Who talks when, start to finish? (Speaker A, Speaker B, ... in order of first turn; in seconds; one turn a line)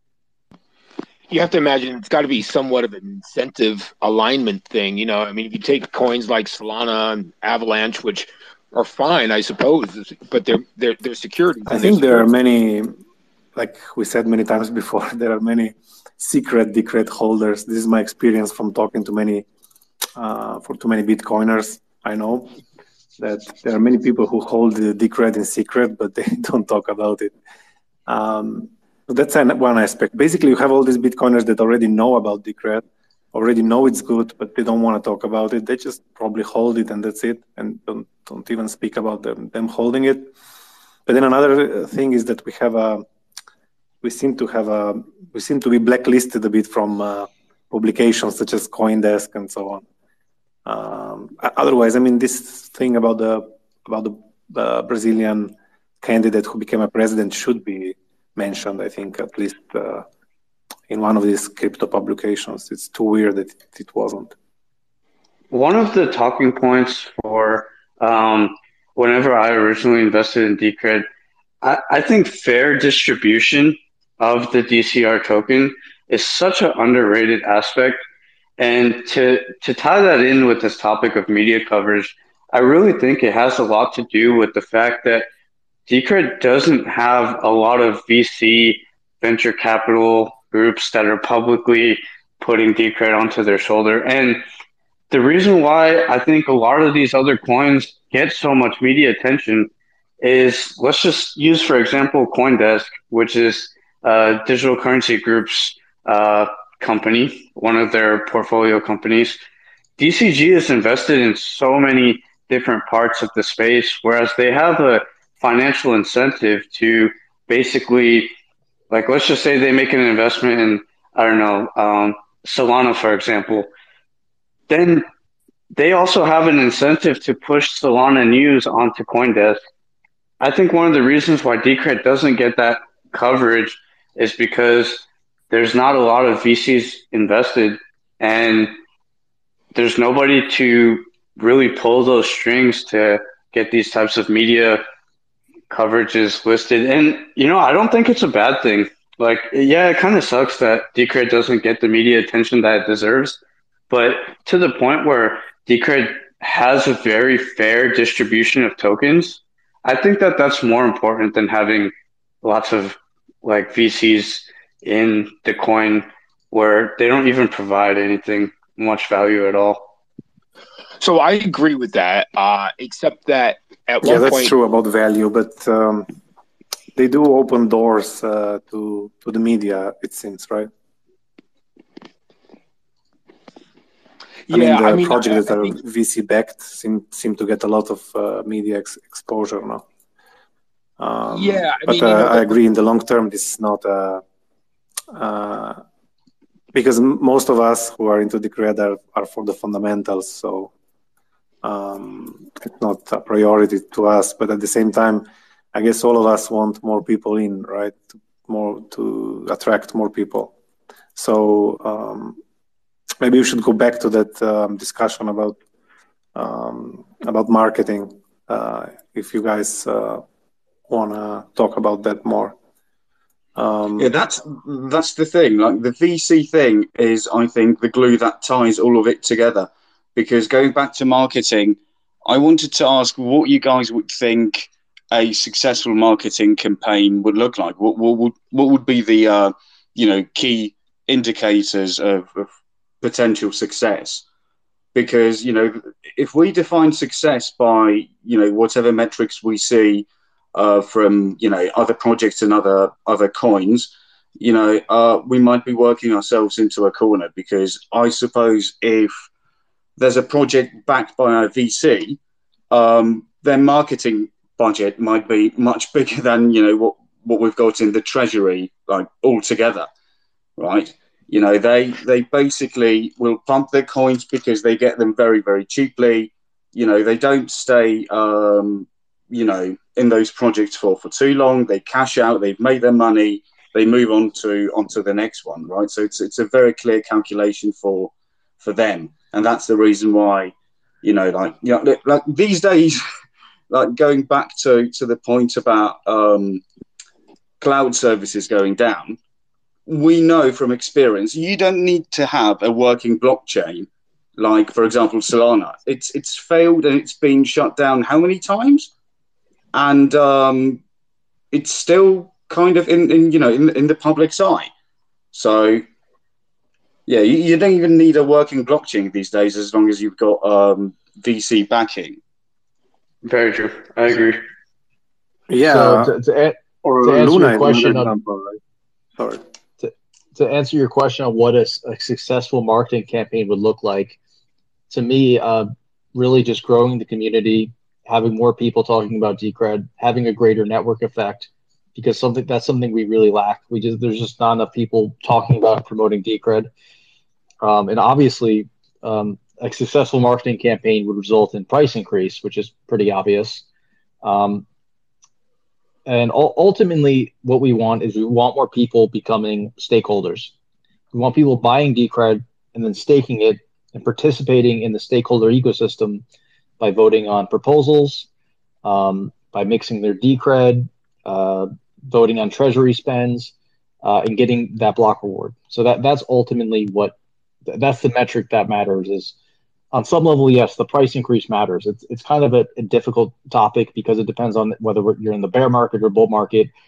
Speaker A: 1.3-12.3
Speaker B: 11.7-12.9
Speaker B: 13.6-19.5
Speaker B: 20.2-22.5
Speaker B: 23.2-27.3
Speaker B: 28.1-40.3
Speaker B: 41.1-43.0
Speaker B: 44.0-49.8
Speaker B: 50.6-60.1
Speaker B: 60.9-64.3
Speaker C: 65.5-71.1
Speaker C: 71.6-78.0
Speaker C: 78.6-85.2
Speaker C: 85.9-94.4
Speaker C: 95.1-99.7
Speaker C: 100.2-109.4
Speaker C: 110.0-118.3
Speaker C: 118.9-123.7
Speaker C: 124.7-125.0
Speaker C: 125.8-129.6
Speaker C: 130.4-138.7
Speaker C: 139.8-144.8
Speaker C: 145.7-153.4
Speaker C: 153.9-161.9
Speaker C: 162.4-169.9
Speaker A: 171.0-174.5
Speaker B: 174.0-176.1
Speaker B: 176.9-180.7
Speaker A: 184.5-185.8
Speaker B: 184.5-189.8
Speaker B: 191.0-194.2
Speaker A: 191.3-192.5
Speaker B: 195.1-195.8
Speaker B: 196.7-200.7
Speaker B: 201.6-210.5
Speaker B: 211.2-212.4
Speaker B: 213.2-215.6
Speaker B: 216.3-220.2
Speaker B: 220.9-222.6
Speaker B: 223.6-224.1
Speaker D: 224.0-242.5
Speaker D: 243.0-244.2
Speaker D: 244.9-259.2
Speaker D: 260.0-262.2
Speaker D: 262.7-269.9
Speaker D: 270.6-293.0
Speaker D: 293.7-296.6
Speaker D: 297.6-299.2
Speaker D: 299.9-308.9
Speaker D: 309.7-310.8
Speaker D: 311.5-314.7
Speaker D: 315.3-315.8
Speaker D: 317.1-322.2
Speaker C: 323.2-324.4
Speaker B: 325.5-326.2
Speaker E: 325.7-328.1
Speaker B: 326.8-328.6
Speaker B: 329.2-329.4
Speaker E: 329.8-334.2
Speaker E: 334.9-346.7
Speaker E: 347.6-353.6
Speaker E: 354.2-354.6
Speaker E: 356.1-360.5
Speaker E: 361.1-366.2
Speaker E: 366.8-368.3
Speaker E: 368.8-379.3
Speaker E: 379.9-386.7